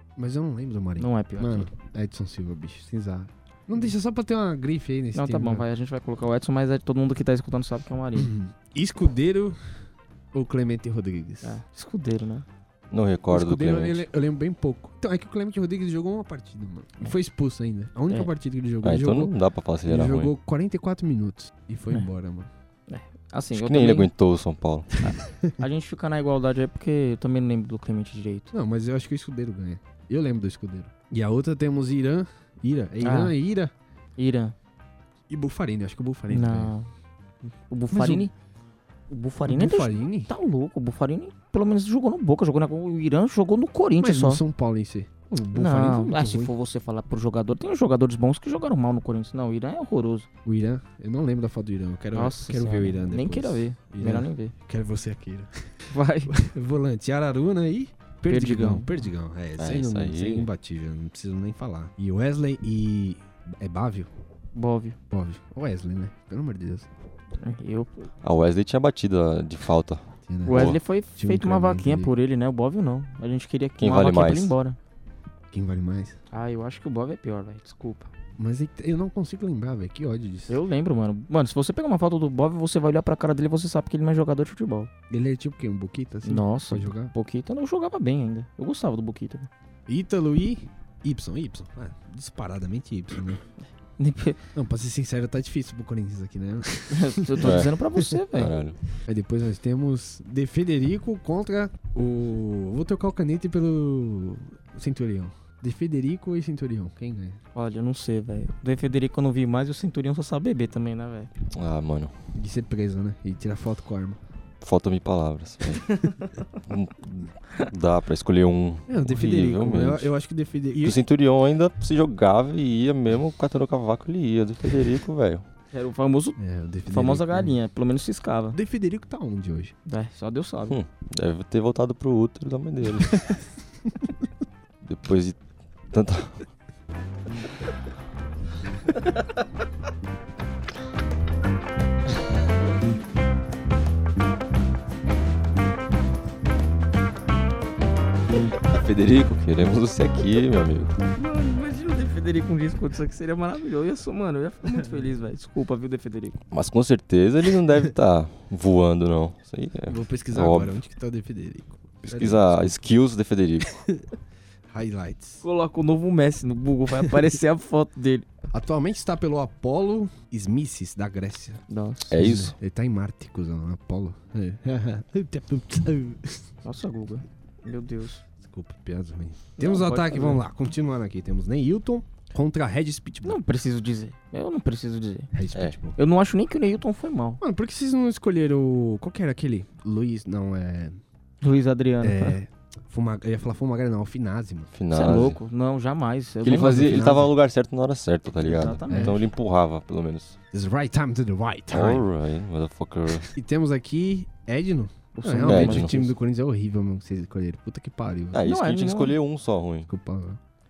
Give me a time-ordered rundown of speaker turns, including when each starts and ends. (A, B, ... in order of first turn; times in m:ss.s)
0:00.2-0:05.7 A
0:01.0-0:01.7 B
0:05.1-0:08.3 B
0:08.1-0:09.6 A
0:10.3-0:11.6 A
0:11.4-0:12.4 B
0:12.9-0:14.1 C
0:13.3-0:19.4 A
0:18.8-0:20.3 C
0:19.9-0:22.5 A
0:22.9-0:24.1 B
0:23.5-0:25.0 C
0:25.0-0:28.5 B
0:28.5-0:33.7 A
0:33.0-0:33.4 B
0:34.2-0:34.5 B
0:35.3-0:36.7 A
0:36.3-0:36.9 B
0:37.7-0:38.3 B
0:37.9-0:38.3 A
0:39.1-0:44.4 B
0:39.4-0:40.3 A
0:44.0-0:46.5 A
0:45.5-0:50.3 B
0:50.4-0:55.7 A
0:52.1-0:54.5 B
0:55.9-0:56.4 B
0:56.3-1:04.1 A
0:58.3-0:59.0 B
0:59.6-1:00.5 C
1:04.5-1:05.0 B
1:05.1-1:06.9 A
1:07.4-1:08.1 B
1:08.2-1:10.8 C
1:10.3-1:12.1 A
1:10.4-1:14.8 B
1:13.8-1:14.5 C
1:15.5-1:16.2 A
1:16.3-1:18.1 B
1:18.4-1:20.6 A
1:20.5-1:24.9 B
1:25.1-1:27.1 A
1:26.2-1:29.5 B
1:29.9-1:33.4 A
1:34.0-1:34.4 B
1:34.5-1:38.2 A
1:36.9-1:38.5 B
1:37.4-1:37.8 C
1:38.3-1:38.8 C
1:39.0-1:47.4 A
1:47.5-1:51.3 B
1:51.5-1:52.1 C
1:52.4-1:54.2 A
1:54.6-2:00.1 C
1:55.8-1:56.4 B
1:58.9-2:01.0 A
2:00.8-2:05.4 C
2:05.7-2:08.6 B
2:06.4-2:07.6 A
2:08.5-2:09.7 A
2:09.9-2:10.8 B
2:10.7-2:13.3 C
2:14.8-2:15.4 C
2:15.9-2:16.4 C
2:28.6-2:31.0 C
2:31.1-2:36.4 B
2:36.5-2:40.7 C
2:39.9-2:42.8 A
2:42.0-2:43.8 C
2:44.7-2:45.4 A
2:45.4-2:48.2 B
2:48.5-2:51.6 A
2:51.7-2:52.2 B
2:52.1-2:52.6 C
2:52.1-2:56.5 A
2:56.6-2:58.2 B
2:58.4-3:03.4 A
2:59.6-3:00.4 B
3:03.2-3:05.3 B
3:05.3-3:06.0 A
3:06.0-3:07.4 B
3:07.4-3:11.0 A
3:11.4-3:12.4 B
3:12.0-3:14.7 A
3:14.7-3:15.4 C
3:14.9-3:17.1 B
3:16.4-3:20.4 C
3:16.4-3:17.3 A
3:18.4-3:19.2 B
3:18.9-3:19.2 A
3:20.5-3:22.1 A
3:21.7-3:23.3 C
3:23.3-3:28.4 A
3:25.2-3:26.1 B
3:25.4-3:26.0 C
3:28.3-3:29.9 C
3:28.4-3:29.2 B
3:29.9-3:30.4 A